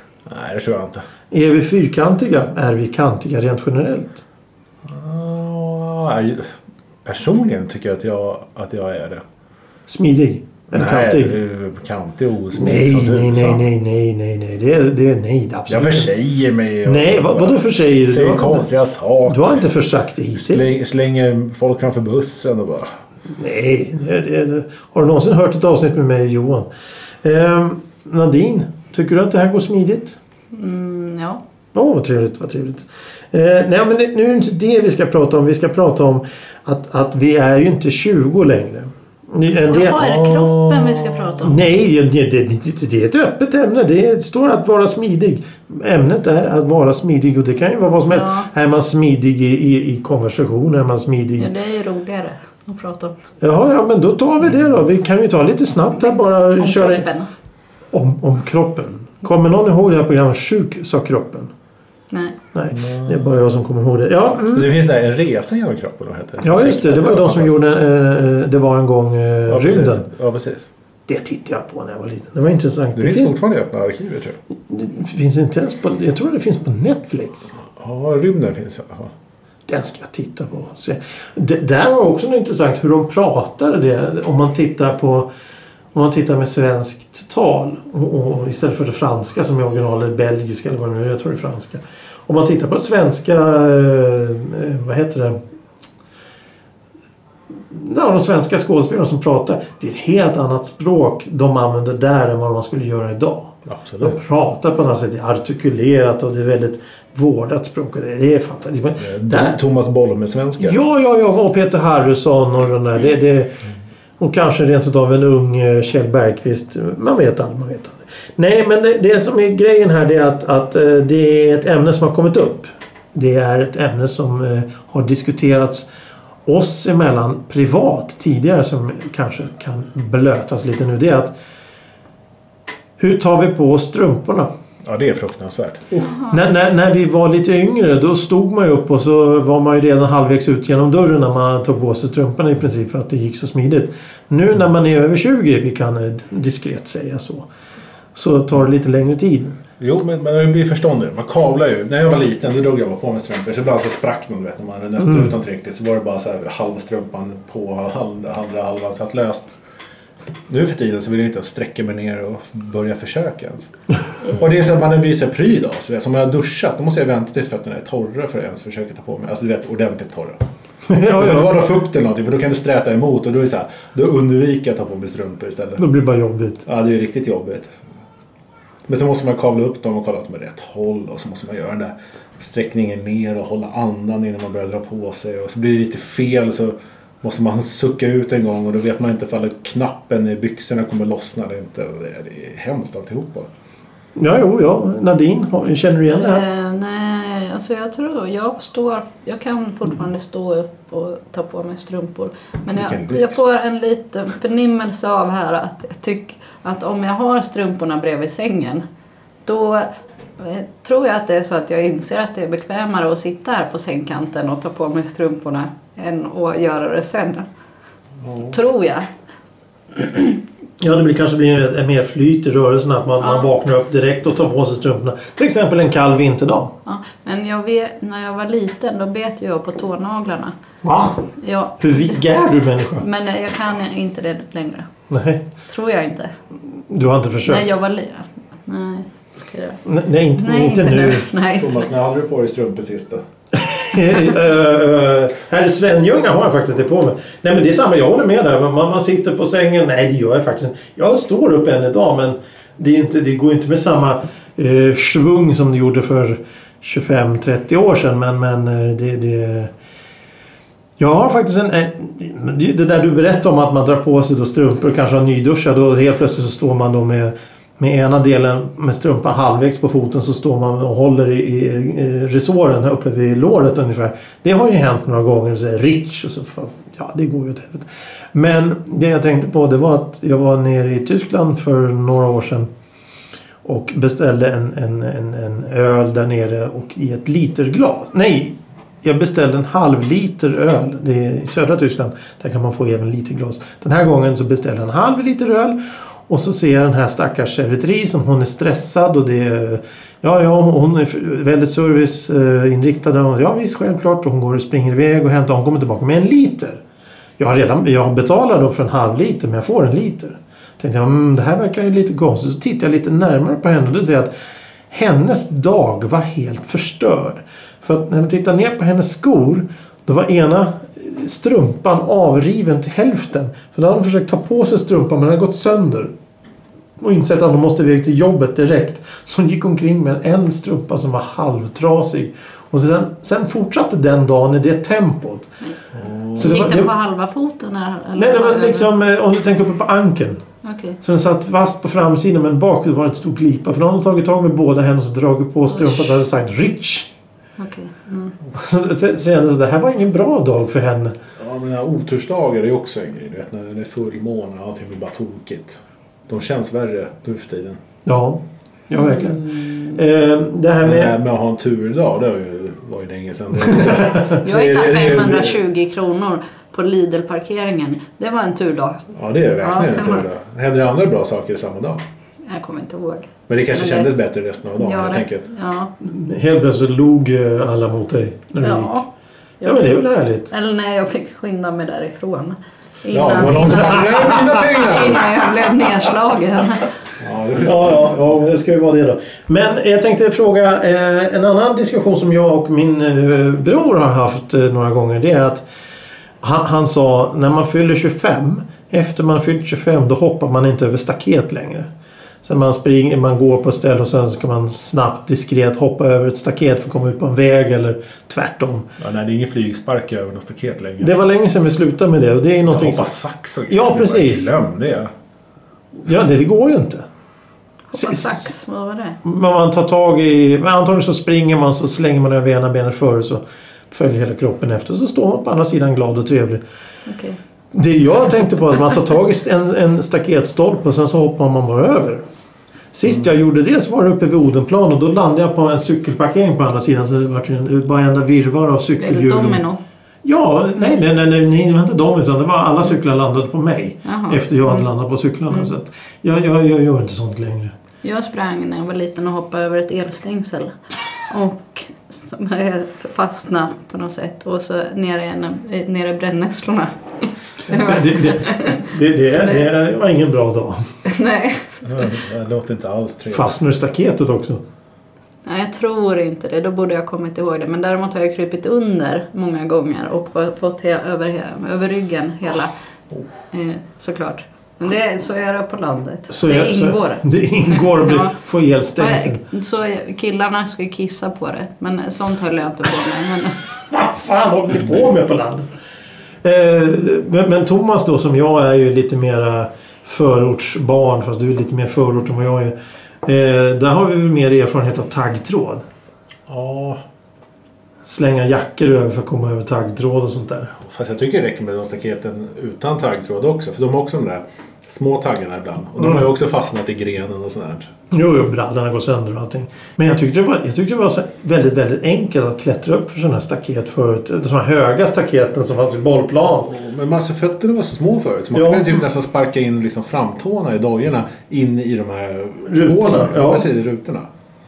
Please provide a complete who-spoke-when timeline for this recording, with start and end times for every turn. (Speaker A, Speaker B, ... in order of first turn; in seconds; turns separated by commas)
Speaker A: 0.3-1.0, Speaker B: 1.3-4.2, Speaker A: 4.9-6.5, Speaker A: 7.0-9.2, Speaker B: 9.9-11.3, Speaker A: 10.7-13.7, Speaker B: 12.5-16.1, Speaker A: 15.7-19.6, Speaker B: 16.9-18.7, Speaker B: 19.3-20.8, Speaker A: 20.4-22.9, Speaker B: 23.3-26.7, Speaker B: 27.2-30.2, Speaker C: 30.5-31.4, Speaker B: 31.7-40.2, Speaker C: 39.7-41.6, Speaker A: 40.0-41.2, Speaker B: 41.4-51.5, Speaker C: 48.1-48.5, Speaker C: 51.4-53.1, Speaker B: 53.4-57.1, Speaker C: 56.6-57.3, Speaker B: 57.9-61.5, Speaker B: 62.5-64.7, Speaker A: 62.7-63.2, Speaker A: 64.5-67.6, Speaker B: 66.4-70.0, Speaker A: 69.5-70.7, Speaker B: 71.1-73.3, Speaker A: 73.0-74.4, Speaker B: 74.7-77.5, Speaker A: 77.6-79.1, Speaker B: 79.7-85.3, Speaker B: 85.9-95.4, Speaker B: 97.7-109.6, Speaker A: 103.7-104.2, Speaker A: 109.0-110.8, Speaker B: 110.6-113.5, Speaker B: 114.2-125.9, Speaker B: 126.5-131.3, Speaker B: 133.0-134.5, Speaker A: 134.8-136.1, Speaker B: 136.3-147.5, Speaker B: 148.2-149.6, Speaker A: 149.8-159.5, Speaker A: 160.5-163.7, Speaker A: 164.3-170.4, Speaker B: 170.9-171.6, Speaker A: 171.0-175.8, Speaker B: 175.8-176.6, Speaker A: 176.7-177.7, Speaker A: 178.9-193.5, Speaker B: 194.2-196.4, Speaker C: 196.1-208.8, Speaker A: 202.7-203.4, Speaker C: 209.5-217.5, Speaker A: 218.2-218.6, Speaker C: 218.5-219.1, Speaker C: 219.9-220.4, Speaker B: 220.8-226.7, Speaker C: 223.2-223.5, Speaker C: 226.8-230.5, Speaker B: 230.8-231.3, Speaker C: 231.4-232.1, Speaker B: 231.8-233.0, Speaker C: 233.0-234.9, Speaker B: 235.1-235.4, Speaker C: 235.7-236.3, Speaker B: 236.9-237.7, Speaker C: 237.5-239.8, Speaker B: 239.8-241.3, Speaker C: 240.4-241.9, Speaker A: 241.6-243.2, Speaker B: 243.5-259.7, Speaker B: 261.0-282.7, Speaker B: 283.6-306.8, Speaker B: 307.4-314.3, Speaker B: 314.9-326.1, Speaker B: 327.0-335.5, Speaker A: 336.0-336.6, Speaker B: 336.4-336.9, Speaker C: 336.4-338.9, Speaker B: 338.1-340.4, Speaker C: 340.6-341.0, Speaker B: 341.0-347.1, Speaker C: 345.7-346.1, Speaker C: 347.6-348.4, Speaker B: 348.5-351.2, Speaker A: 351.4-357.8, Speaker B: 358.1-361.1, Speaker C: 358.9-359.9, Speaker A: 360.8-365.6, Speaker C: 364.3-369.0, Speaker A: 369.1-372.0, Speaker C: 369.6-370.3, Speaker C: 372.5-374.1, Speaker A: 373.5-375.5, Speaker C: 374.8-375.9, Speaker B: 376.0-379.0, Speaker C: 378.6-379.1, Speaker C: 379.6-386.9, Speaker B: 379.6-380.5, Speaker A: 383.1-385.4, Speaker A: 387.2-388.2, Speaker B: 387.6-395.6, Speaker B: 396.4-401.9, Speaker B: 402.4-408.9, Speaker A: 409.0-411.1, Speaker B: 411.0-413.1, Speaker A: 412.6-415.1, Speaker B: 413.7-414.5, Speaker B: 416.0-417.1, Speaker C: 417.9-419.2, Speaker B: 417.9-418.4, Speaker B: 419.2-426.6, Speaker C: 427.1-427.4, Speaker B: 427.7-432.2, Speaker B: 432.9-439.6, Speaker C: 439.0-439.8, Speaker B: 440.2-447.7, Speaker C: 444.1-444.9, Speaker C: 448.0-450.8, Speaker C: 451.3-458.9, Speaker B: 457.7-460.9, Speaker C: 461.1-461.6, Speaker A: 461.9-463.6, Speaker B: 463.3-464.6, Speaker C: 465.4-472.7, Speaker C: 473.5-478.3, Speaker B: 476.3-479.4, Speaker C: 479.0-483.6, Speaker B: 483.9-485.7, Speaker B: 486.4-495.9, Speaker A: 496.5-497.0, Speaker B: 498.1-500.7, Speaker A: 500.8-507.9, Speaker B: 506.0-506.2, Speaker B: 508.1-516.7, Speaker A: 516.6-524.3, Speaker B: 518.5-518.9, Speaker B: 522.7-523.7